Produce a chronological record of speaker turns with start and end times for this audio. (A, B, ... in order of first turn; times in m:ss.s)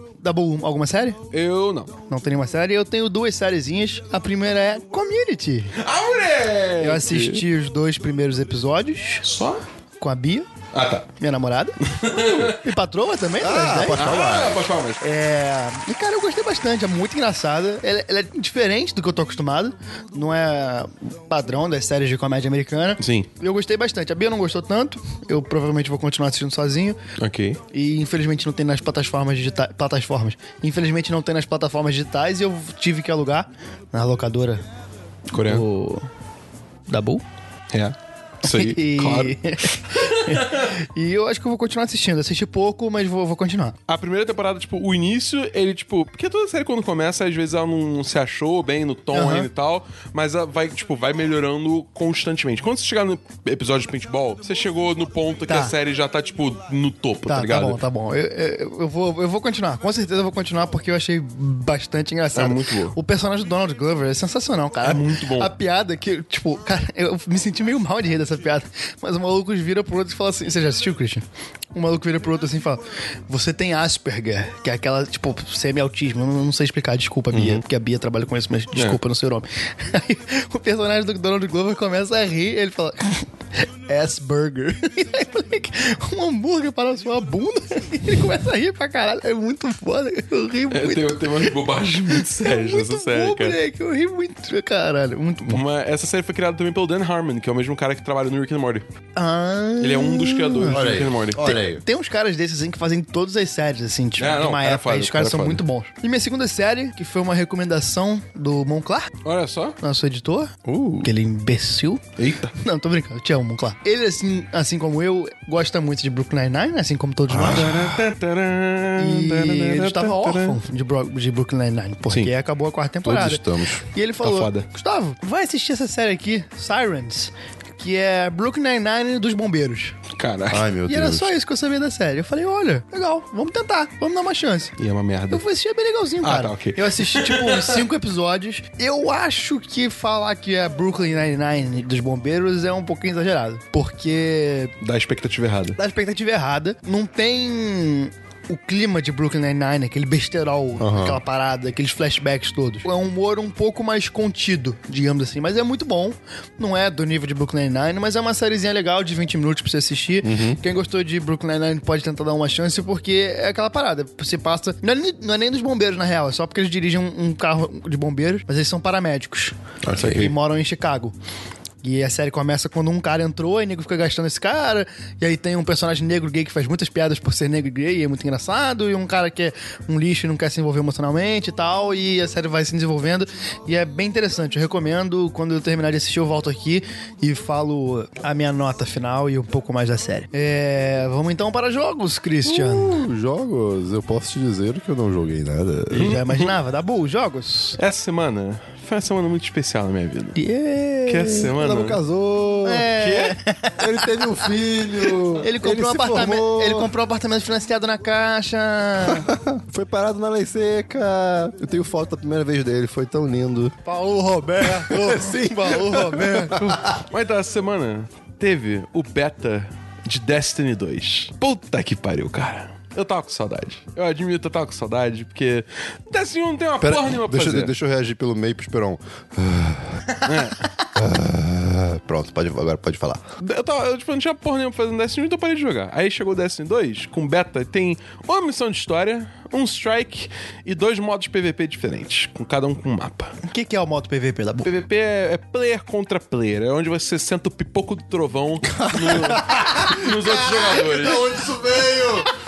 0:00.2-0:01.2 A
0:01.3-0:01.9 B
0:02.1-0:05.8 A
0:05.8-0:07.4 B
0:06.8-0:09.2 A
0:09.2-0:09.6 B
0:10.0-0:10.5 A
0:10.7-0:11.1 B
0:11.2-0:14.1 A
0:11.9-0:12.6 B
0:13.4-0:14.6 C
0:13.9-0:15.0 B
0:15.0-0:27.0 A
0:23.0-0:23.3 B
0:27.2-0:27.6 B
0:27.7-0:34.6 A
0:35.3-0:35.6 B
0:35.4-0:36.1 A
0:36.9-0:37.2 A
0:37.7-0:40.7 B
0:38.4-0:43.8 A
0:43.9-0:57.8 B
0:49.1-0:49.5 A
0:55.5-0:55.7 A
0:57.3-1:31.6 A
1:02.4-1:03.0 B
1:04.8-1:05.5 B
1:30.7-1:33.6 B
1:32.1-1:35.6 A
1:35.4-1:38.8 B
1:39.2-1:49.1 A
1:39.8-1:41.4 B
1:40.7-1:41.8 C
1:44.2-1:45.6 B
1:49.2-1:49.8 B
1:49.8-1:52.0 A
1:52.2-1:52.5 B
1:52.6-1:57.7 A
1:57.3-1:58.0 C
1:57.4-2:00.6 B
1:59.0-2:03.4 A
2:03.0-2:03.8 C
2:03.9-2:10.0 A
2:04.2-2:04.7 B
2:10.1-2:10.6 B
2:10.5-2:11.3 C
2:10.9-2:14.7 A
2:14.8-2:15.4 B
2:15.3-2:24.7 A
2:16.2-2:17.8 B
2:24.8-2:25.8 B
2:25.8-2:51.1 A
2:30.8-2:31.2 C
2:40.2-2:40.6 C
2:49.8-2:50.3 C
2:51.8-3:13.0 A
3:12.4-3:16.1 C
3:15.9-3:17.8 A
3:16.0-3:16.5 B
3:17.8-3:20.4 B
3:20.4-3:21.4 A
3:21.1-3:22.0 B
3:21.3-3:22.9 C
3:22.6-3:24.4 A
3:22.9-3:23.4 B
3:23.8-3:26.9 C
3:25.4-3:29.3 A
3:29.1-3:33.8 C
3:33.8-3:36.8 A
3:34.6-3:37.0 C
3:37.1-3:47.7 B
3:46.8-3:50.1 C
3:50.2-3:50.7 B
3:50.9-3:53.2 C
3:53.4-4:03.4 B
4:03.4-4:04.7 A
4:04.6-4:11.3 B
4:08.7-4:12.3 C